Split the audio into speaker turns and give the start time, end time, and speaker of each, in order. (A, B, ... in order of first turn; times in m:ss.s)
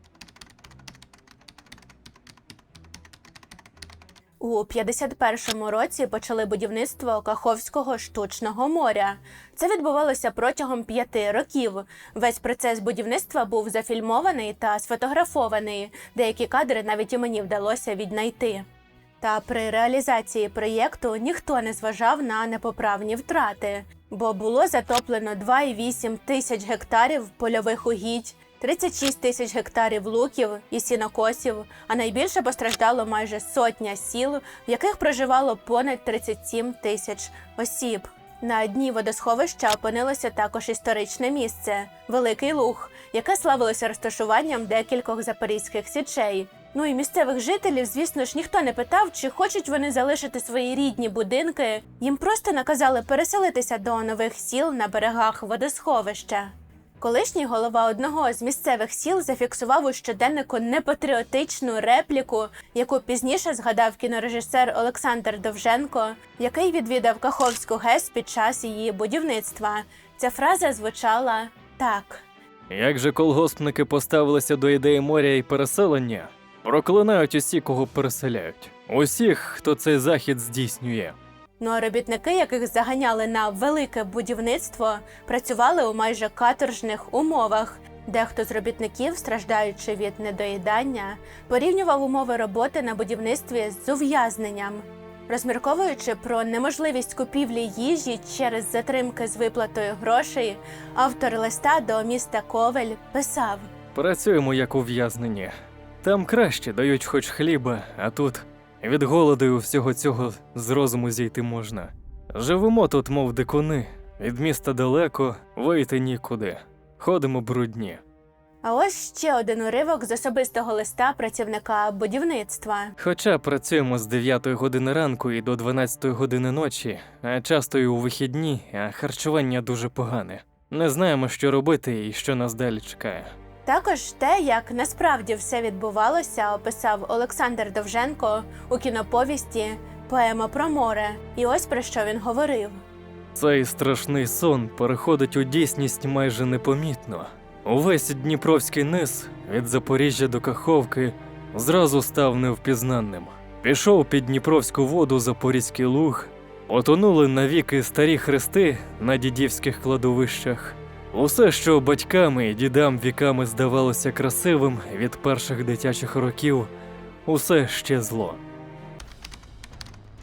0:04.4-0:18.7 A
0:19.2-1:12.2 A
1:12.7-1:21.2 B
1:21.6-1:43.7 A
1:43.9-1:58.0 B
1:58.6-2:02.9 A
2:03.0-2:13.3 B
2:13.6-2:22.8 A
2:23.3-2:46.7 B
2:47.2-2:48.4 B